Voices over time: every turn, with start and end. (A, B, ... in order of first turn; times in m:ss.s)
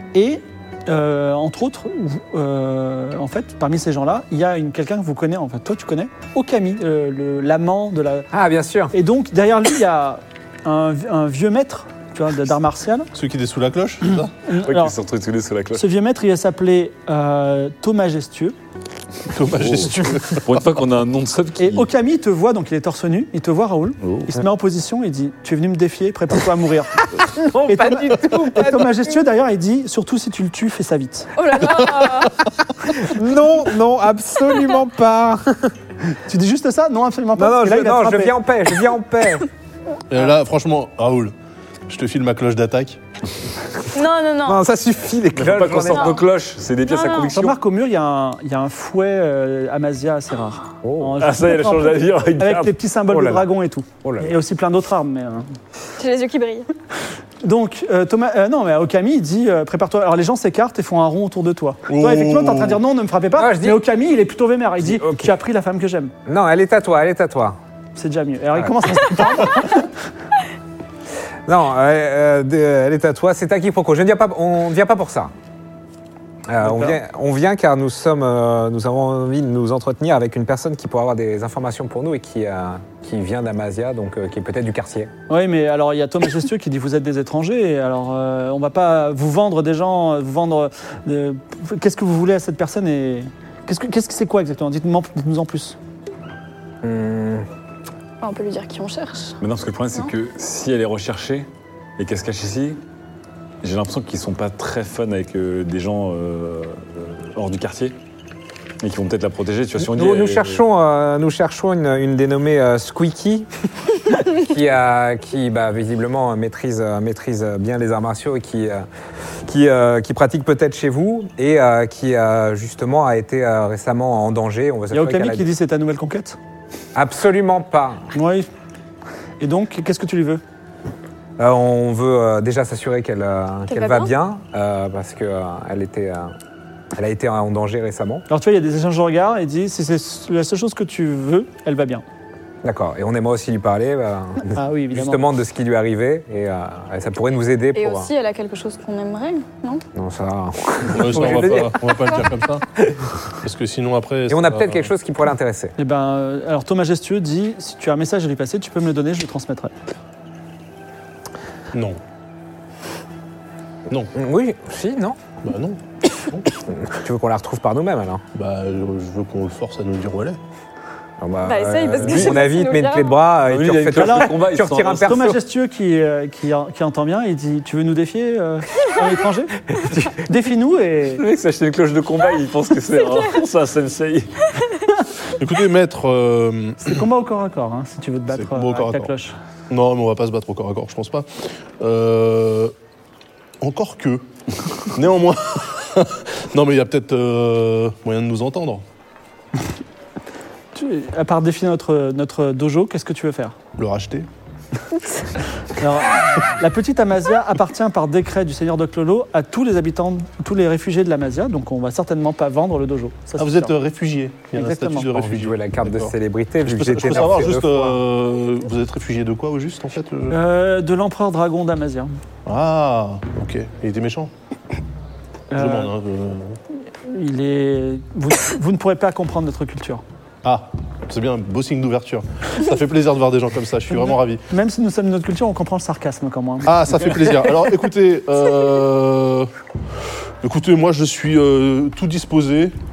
0:00.1-0:08.3 A
0:08.3-0:08.9 B
0:08.9-0:13.1 A
0:13.1-0:14.3 C
0:14.4-0:15.0 A
0:14.6-0:15.9 D
0:15.7-0:18.5 A
0:19.3-0:20.6 C
0:19.5-0:21.9 D
0:21.6-0:27.1 A
0:27.2-0:29.2 B
0:27.6-0:31.3 A
0:31.4-0:32.4 E
0:32.8-0:35.7 B
0:36.2-0:38.4 A
0:37.4-0:39.4 B
0:40.1-0:41.3 C
0:41.9-0:43.0 C
0:43.9-0:44.6 E
0:44.4-0:46.2 B
0:45.3-0:47.6 D
0:45.9-0:46.2 E
0:46.9-0:47.3 E
0:47.3-0:55.5 A
0:50.8-0:51.2 B
0:51.2-0:52.7 D
0:53.1-0:53.5 B
0:54.0-0:54.3 B
0:56.0-0:56.7 E
0:57.4-1:06.1 A
1:01.9-1:02.8 C
1:03.4-1:03.9 B
1:04.8-1:05.3 B
1:06.2-1:07.6 B
1:08.0-1:09.9 A
1:08.5-1:09.0 B
1:11.4-1:15.3 B
1:16.5-1:25.1 B
1:16.6-1:17.0 A
1:25.3-1:35.8 A
1:36.8-1:37.5 B
1:38.2-1:39.4 E
1:39.4-1:41.5 D
1:42.0-1:42.8 D
1:43.6-1:48.0 D
1:48.8-1:50.6 D
1:49.8-1:53.5 B
1:54.1-1:58.9 B
1:59.4-2:05.5 B
2:04.9-2:06.4 A
2:06.9-2:08.1 B
2:08.1-2:08.5 A
2:09.4-2:10.4 A
2:11.4-2:16.3 B
2:13.7-2:14.1 E
2:16.9-2:18.2 B
2:18.3-2:22.0 A
2:22.6-2:28.1 B
2:24.4-2:25.2 A
2:27.7-2:29.8 E
2:29.9-2:33.0 B
2:30.9-2:32.6 C
2:33.4-2:34.9 C
2:34.3-2:35.7 B
2:35.8-2:39.7 A
2:41.7-2:42.0 C
2:44.1-2:45.2 B
2:45.4-2:46.5 C
2:46.7-2:48.2 B
2:48.3-2:50.4 C
2:51.2-2:55.4 B
2:51.4-2:53.2 E
2:52.0-2:52.5 D
2:53.4-2:55.2 D
2:54.0-2:59.6 A
2:59.7-3:00.2 B
3:00.2-3:01.2 A
3:01.2-3:04.5 D
3:05.4-3:06.9 C
3:06.8-3:09.4 A
3:08.3-3:09.1 C
3:09.7-3:11.3 C
3:11.8-3:12.7 C
3:13.6-3:14.2 C
3:14.9-3:18.8 C
3:20.7-3:23.6 A
3:23.8-3:24.3 C
3:25.8-3:33.7 A
3:33.4-3:40.4 C
3:34.5-3:35.1 A
3:35.1-3:38.0 B
3:40.3-3:42.1 A
3:42.4-3:44.3 C
3:45.5-3:45.9 A
3:45.5-3:46.6 C
3:47.0-3:50.0 A
3:50.4-3:54.4 C
3:54.5-3:56.8 A
3:56.6-3:59.5 C
4:00.4-4:02.7 C